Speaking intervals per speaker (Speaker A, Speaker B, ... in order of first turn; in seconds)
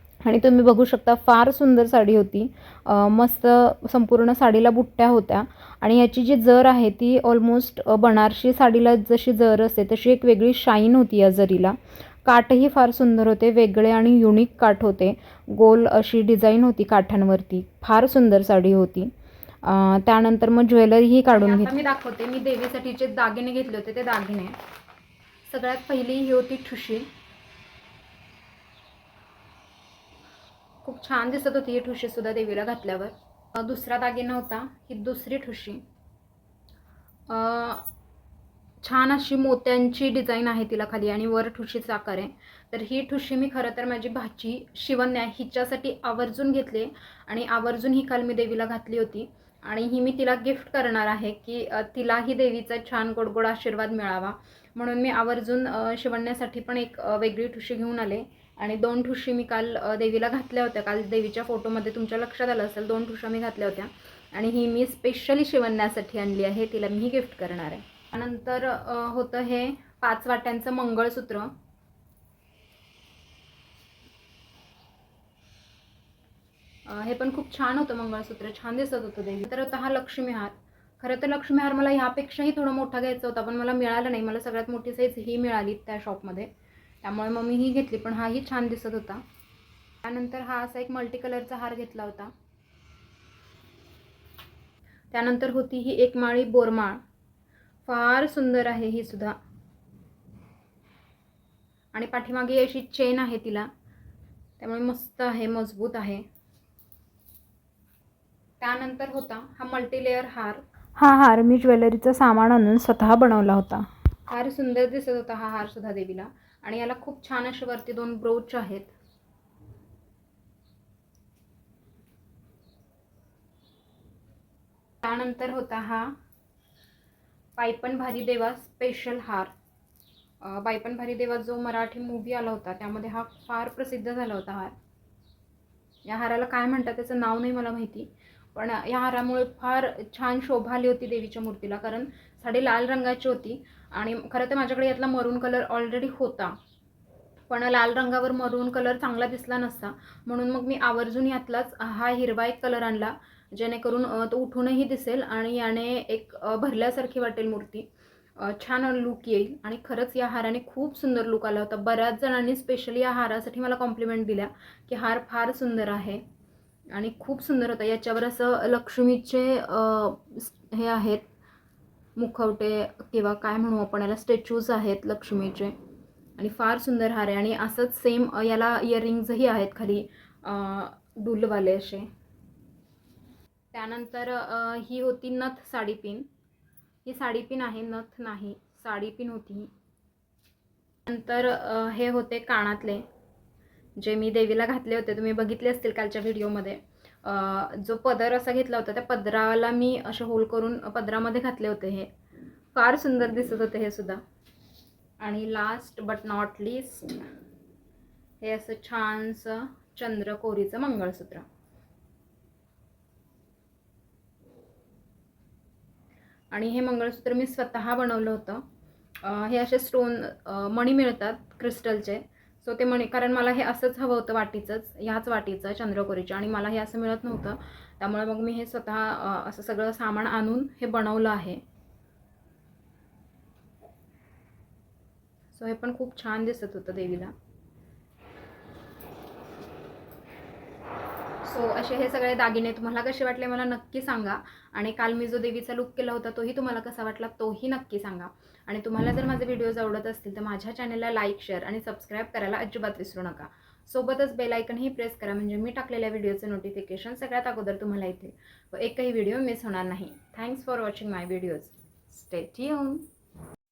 Speaker A: 0.2-19.1, 19.6-24.6, 25.5-27.1, 30.8-35.8, 37.3-37.9, 38.8-71.5, 76.9-86.5, 87.0-89.2, 90.0-92.3, 95.1-97.0, 97.9-99.4, 101.9-103.7, 104.6-106.2, 108.6-118.9, 125.0-126.1, 127.6-129.5, 130.4-134.8, 136.1-146.6, 147.5-166.2, 166.9-171.3, 172.2-175.7, 176.4-182.1, 183.7-186.3, 187.1-189.7, 191.1-193.0, 194.0-202.1, 202.7-204.2, 205.2-207.2, 208.4-211.4, 216.5-218.6, 219.2-231.6, 235.5-237.3, 241.4-263.0